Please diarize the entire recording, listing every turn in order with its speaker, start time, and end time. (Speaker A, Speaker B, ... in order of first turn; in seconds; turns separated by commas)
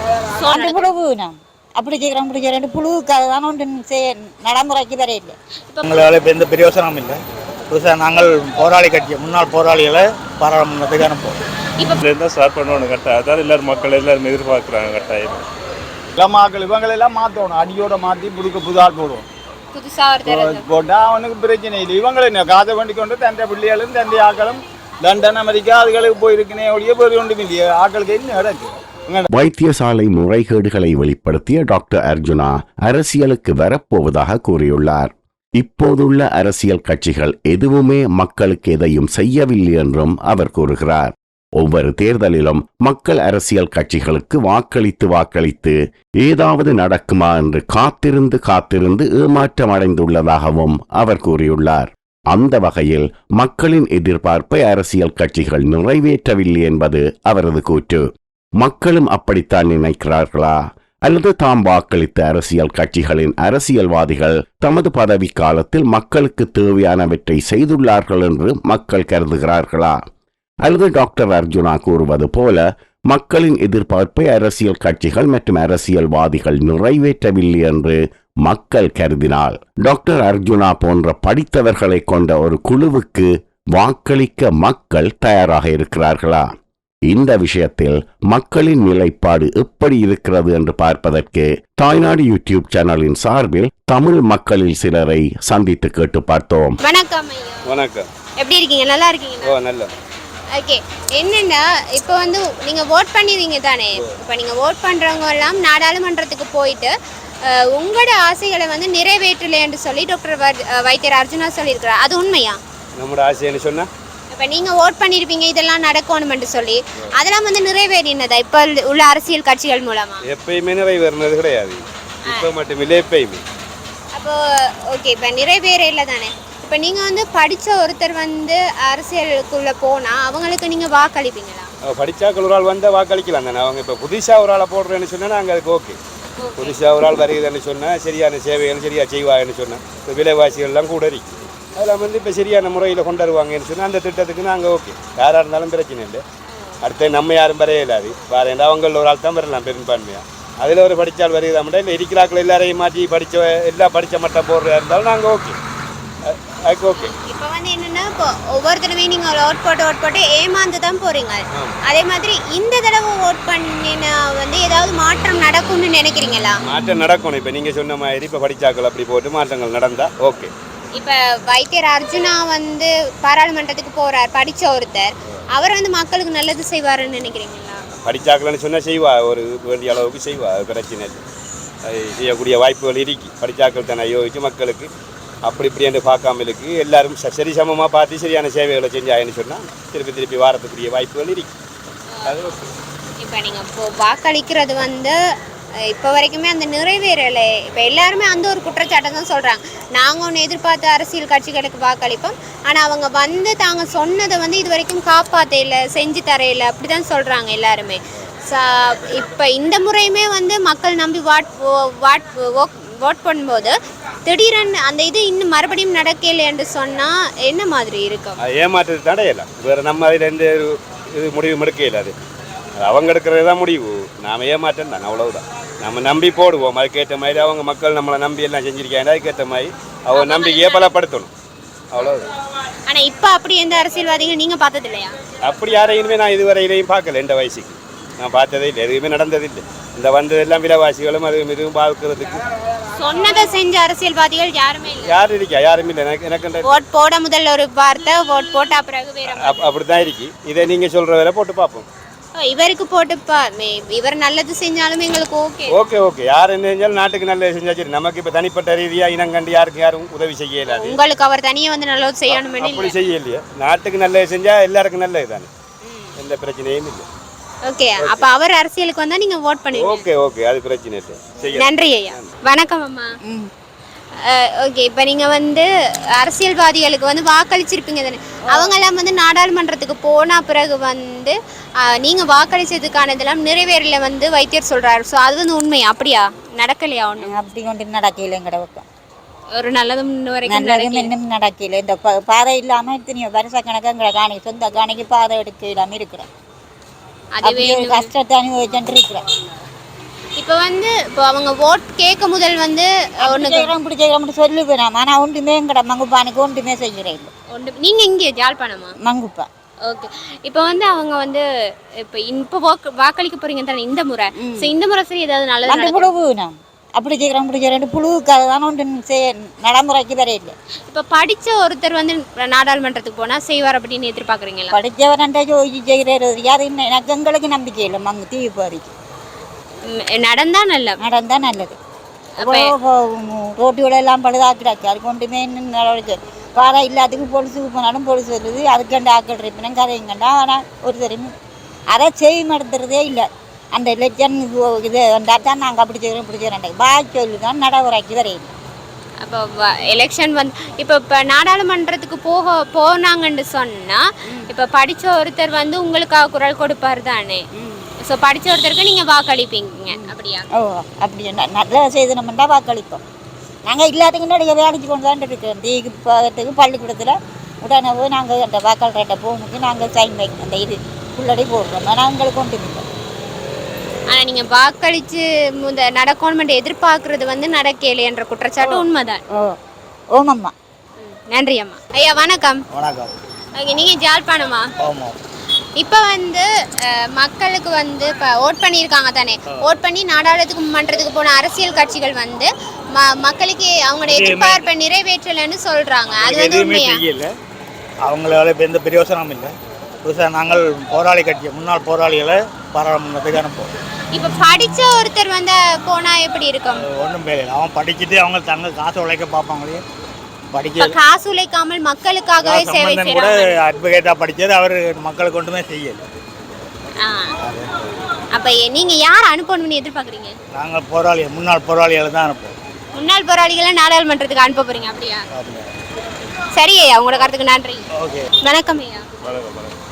Speaker A: 0.3-0.9, Speaker B: 0.5-5.3, Speaker C: 5.8-7.2, Speaker C: 7.7-11.4, Speaker D: 12.0-15.4, Speaker E: 16.1-19.2, Speaker A: 19.7-20.6, Speaker E: 20.2-29.3, Speaker F: 29.3-58.0, Speaker F: 58.6-70.0, Speaker F: 70.6-86.5, Speaker F: 87.1-96.8, Speaker A: 96.8-97.7, Speaker G: 97.7-98.1, Speaker A: 98.4-99.5, Speaker G: 99.4-99.9, Speaker A: 100.5-106.9, Speaker A: 107.5-112.6, Speaker G: 113.0-113.9, Speaker A: 114.3-120.2, Speaker G: 120.2-123.4, Speaker A: 124.9-131.7, Speaker G: 131.9-136.0, Speaker A: 136.4-136.8, Speaker G: 136.6-146.2, Speaker A: 146.5-146.8, Speaker G: 146.8-155.6, Speaker G: 156.2-157.1, Speaker A: 156.9-166.6, Speaker G: 166.6-170.5, Speaker A: 170.9-177.8, Speaker G: 178.0-181.2, Speaker G: 181.8-184.9, Speaker G: 185.4-191.5, Speaker G: 192.2-192.7, Speaker A: 193.2-195.2, Speaker A: 195.9-213.7, Speaker A: 214.2-218.4, Speaker G: 218.4-222.2, Speaker G: 222.8-231.3, Speaker A: 230.1-230.9, Speaker G: 231.9-232.3, Speaker A: 232.8-235.1, Speaker G: 235.4-242.4, Speaker A: 242.9-245.1, Speaker G: 245.0-246.8, Speaker A: 246.6-249.7, Speaker G: 249.3-251.8, Speaker A: 252.3-255.7, Speaker G: 255.7-261.0, Speaker A: 260.6-262.9, Speaker G: 262.3-265.5, Speaker A: 265.8-266.1, Speaker G: 266.1-267.0, Speaker A: 267.6-270.1, Speaker G: 269.7-272.3, Speaker A: 271.5-273.1, Speaker B: 273.2-273.5, Speaker A: 274.2-287.3, Speaker B: 287.2-288.8, Speaker A: 289.5-291.1, Speaker B: 290.5-296.3, Speaker A: 297.3-298.1, Speaker B: 297.4-299.2, Speaker A: 300.4-303.7, Speaker B: 303.2-307.3, Speaker A: 307.5-308.9, Speaker B: 309.0-309.5, Speaker A: 309.9-311.4, Speaker A: 312.0-316.1, Speaker B: 314.4-314.7, Speaker B: 315.7-320.5, Speaker A: 320.9-324.7, Speaker B: 324.7-328.9, Speaker A: 329.9-330.9, Speaker B: 331.0-331.8, Speaker B: 332.4-341.3, Speaker A: 332.4-332.7, Speaker B: 341.9-348.5, Speaker A: 349.2-357.4, Speaker A: 358.0-360.4, Speaker B: 359.9-363.0, Speaker B: 363.6-372.8, Speaker A: 374.1-379.2, Speaker B: 379.3-379.6, Speaker B: 380.1-380.5, Speaker A: 381.0-382.6, Speaker C: 382.7-383.1, Speaker A: 383.6-384.6, Speaker C: 384.8-385.1, Speaker A: 385.8-397.0, Speaker C: 394.1-394.6, Speaker C: 396.1-397.3, Speaker C: 398.0-403.7, Speaker A: 404.1-406.9, Speaker C: 406.7-409.8, Speaker C: 410.5-410.9, Speaker A: 410.8-413.6, Speaker C: 412.4-416.0, Speaker A: 417.0-417.3, Speaker C: 417.4-417.7, Speaker A: 418.3-420.3, Speaker C: 420.5-422.6, Speaker A: 422.9-425.2, Speaker C: 425.3-425.7, Speaker A: 426.5-427.8, Speaker C: 427.9-428.3, Speaker A: 428.4-429.1, Speaker D: 429.2-429.8